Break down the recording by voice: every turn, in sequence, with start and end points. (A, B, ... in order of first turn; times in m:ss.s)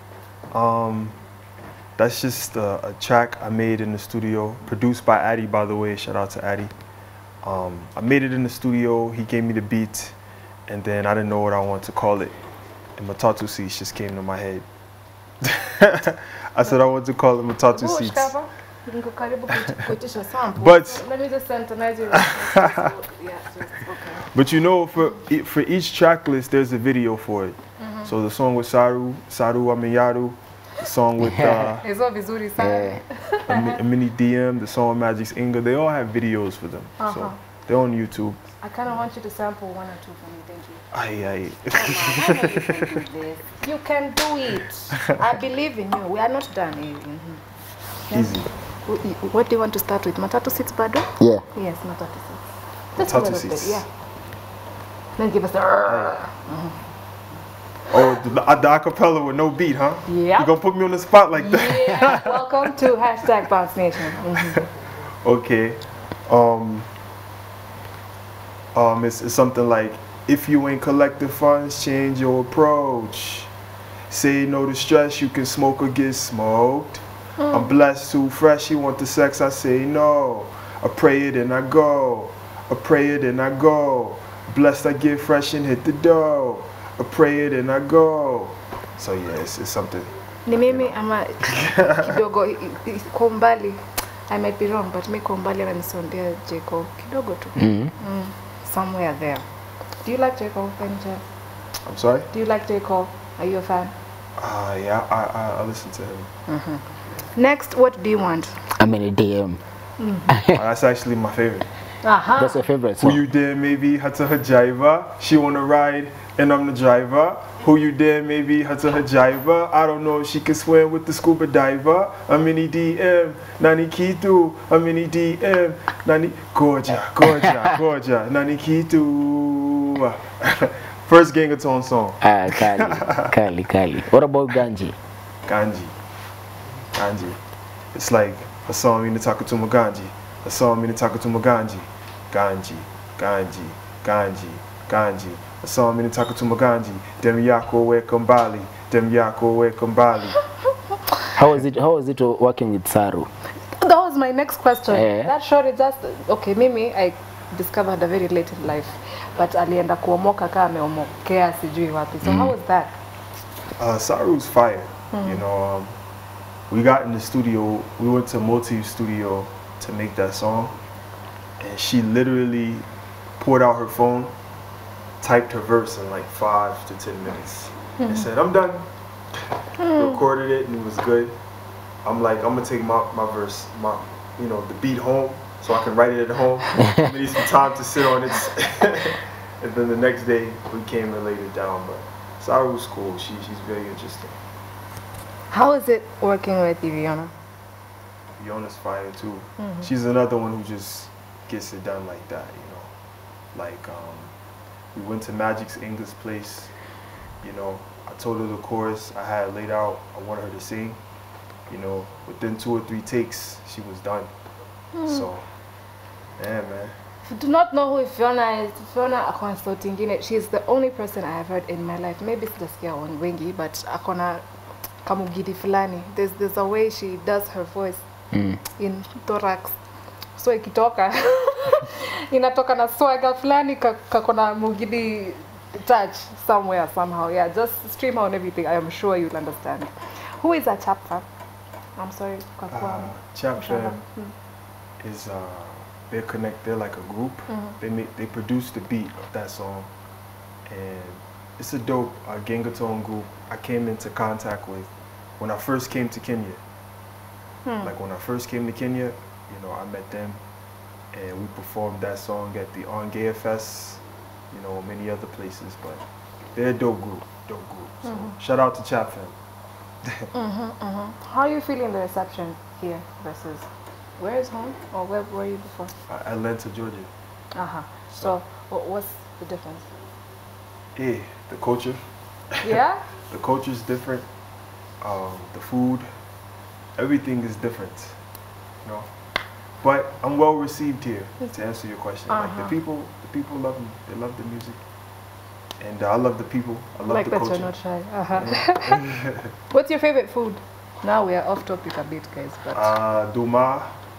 0:00.5-0:01.2 A
0:02.0-0:06.7 A
0:07.4-0:10.2 A
0:10.7-0:12.4 A
0:13.0-0:14.6 A
0:15.4-0:18.3 A
0:17.7-0:24.3 B
0:19.5-0:19.8 A
0:20.6-0:21.0 A
0:22.1-0:22.8 A
0:24.2-0:31.8 A
0:27.8-0:28.1 B
0:31.4-0:31.7 C
0:31.8-0:33.8 B
0:32.6-0:33.0 C
0:33.5-0:38.4 A
0:37.0-0:37.4 B
0:38.6-0:40.9 B
0:40.9-0:43.0 A
0:41.7-0:47.4 B
0:44.9-0:45.4 A
0:48.1-0:52.4 B
0:48.1-0:48.5 A
0:51.2-0:51.4 C
0:52.9-0:53.9 B
0:53.0-0:53.8 A
0:55.2-0:56.8 B
0:55.8-0:56.2 A
0:57.9-1:02.4 A
1:00.1-1:00.6 B
1:01.3-1:04.6 B
1:04.3-1:04.6 A
1:05.2-1:06.9 A
1:08.7-1:13.5 A
1:14.1-1:30.1 A
1:17.4-1:17.8 B
1:30.4-1:39.4 B
1:30.6-1:32.2 A
1:37.6-1:37.9 C
1:40.0-1:41.2 B
1:41.8-1:42.3 A
1:42.3-1:43.9 B
1:44.4-1:46.3 A
1:46.5-1:48.7 B
1:48.8-1:49.6 C
1:50.0-1:50.4 B
1:50.3-1:50.6 C
1:50.5-1:51.7 A
1:52.0-1:52.7 B
1:52.4-1:53.2 C
1:53.0-2:13.3 A
2:07.3-2:07.7 C
2:12.2-2:14.9 C
2:15.4-2:15.9 A
2:16.9-2:17.4 A
2:17.9-2:30.4 A
2:31.3-2:33.3 C
2:33.7-2:43.0 B
2:34.9-2:35.3 C
2:42.2-2:42.6 C
2:43.8-2:45.9 A
2:45.1-2:45.4 B
2:46.7-2:50.7 A
2:51.6-2:52.9 A
2:53.4-2:54.3 A
2:55.2-2:58.9 A
2:58.0-2:58.2 B
2:59.8-3:00.2 B
2:59.9-3:01.4 A
3:02.0-3:14.4 A
3:15.5-3:17.3 B
3:18.4-3:22.9 A
3:19.6-3:19.9 B
3:23.5-3:24.3 A
3:24.9-3:26.7 A
3:27.4-3:31.0 A
3:31.7-3:34.3 A
3:34.9-3:35.3 B
3:35.1-3:35.4 A
3:36.4-3:36.9 A
3:37.2-3:44.4 B
3:45.0-3:48.0 B
3:48.3-3:48.6 C
3:48.8-3:49.8 B
3:50.4-4:01.2 B
4:02.0-4:04.3 B
4:02.7-4:04.0 A
4:05.0-4:09.9 A
4:07.5-4:07.8 B
4:10.7-4:16.6 A
4:17.6-4:17.9 B
4:17.8-4:20.4 A
4:21.1-4:26.0 A
4:26.6-4:29.4 A
4:28.0-4:28.4 B
4:30.3-4:35.9 B
4:36.1-4:37.1 A
4:37.5-4:39.9 B
4:40.9-4:42.0 A
4:42.6-4:43.0 B
4:43.3-4:44.3 A
4:45.0-4:46.1 A
4:47.0-4:48.2 A
4:48.8-4:49.1 A
4:49.8-4:54.8 A
4:52.3-4:52.8 B
4:55.8-4:57.7 A
4:57.1-4:59.1 B
4:58.3-4:59.5 A
4:59.7-5:02.9 B
5:02.7-5:03.9 A